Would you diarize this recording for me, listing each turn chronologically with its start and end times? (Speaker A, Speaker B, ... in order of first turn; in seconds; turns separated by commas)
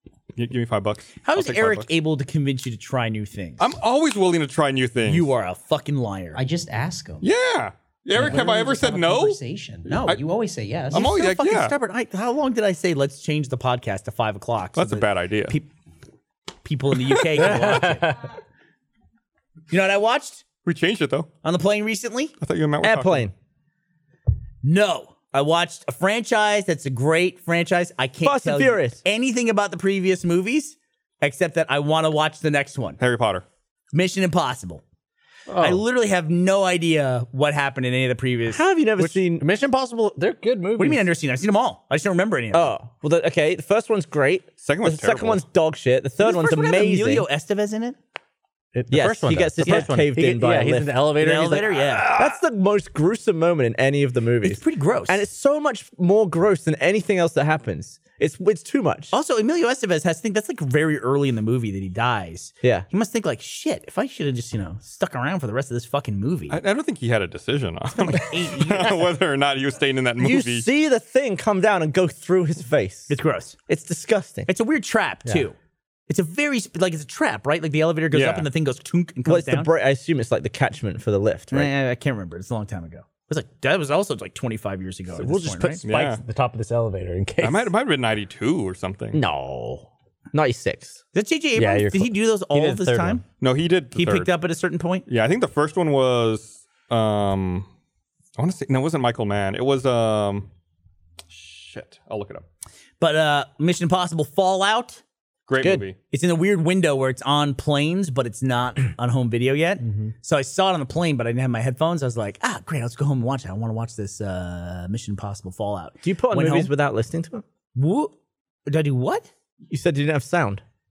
Speaker A: 0.3-1.9, Speaker B: 1.2-3.7, Speaker A: 3.6-5.3, Speaker B: 5.0-6.4, Speaker C: 6.3-7.3, Speaker A: 7.2-9.4, Speaker C: 8.1-11.1, Speaker B: 9.9-10.1, Speaker B: 10.9-15.7, Speaker A: 10.9-11.7, Speaker A: 14.8-15.6, Speaker B: 16.6-18.2, Speaker D: 17.4-18.1, Speaker B: 19.7-20.4, Speaker A: 20.6-21.3, Speaker B: 21.4-22.3, Speaker A: 22.4-23.3, Speaker E: 22.8-23.3, Speaker B: 24.6-33.0, Speaker E: 28.2-29.0, Speaker A: 33.0-33.4, Speaker B: 33.9-34.8, Speaker D: 35.5-35.8, Speaker B: 35.6-38.6, Speaker E: 38.5-39.5, Speaker D: 39.0-41.1, Speaker B: 40.8-42.7, Speaker E: 42.5-47.2, Speaker A: 44.6-45.4, Speaker B: 46.2-48.0, Speaker D: 48.7-52.3, Speaker E: 48.9-51.0, Speaker B: 49.6-49.9, Speaker B: 51.2-52.1, Speaker E: 52.1-59.1, Speaker B: 54.4-55.2, Speaker B: 59.1-66.6, Speaker A: 66.5-70.7, Speaker B: 67.9-69.1, Speaker E: 70.2-74.5, Speaker B: 73.1-73.5, Speaker B: 74.5-75.5, Speaker B: 76.1-79.7, Speaker A: 78.1-78.5, Speaker E: 79.2-81.7, Speaker B: 81.5-85.8, Speaker D: 85.1-87.7, Speaker A: 85.8-86.2, Speaker A: 87.4-89.2, Speaker E: 89.1-91.0, Speaker B: 91.1-93.2, Speaker D: 91.5-93.2, Speaker A: 93.4-94.3, Speaker B: 93.9-95.0, Speaker A: 95.1-97.7, Speaker A: 98.4-100.5, Speaker A: 101.3-102.4, Speaker B: 103.0-105.0, Speaker A: 105.5-106.0, Speaker E: 105.6-105.8, Speaker B: 106.1-116.7, Speaker D: 109.8-110.1, Speaker E: 116.0-117.4, Speaker B: 117.8-118.1, Speaker B: 118.7-119.3, Speaker E: 119.7-120.6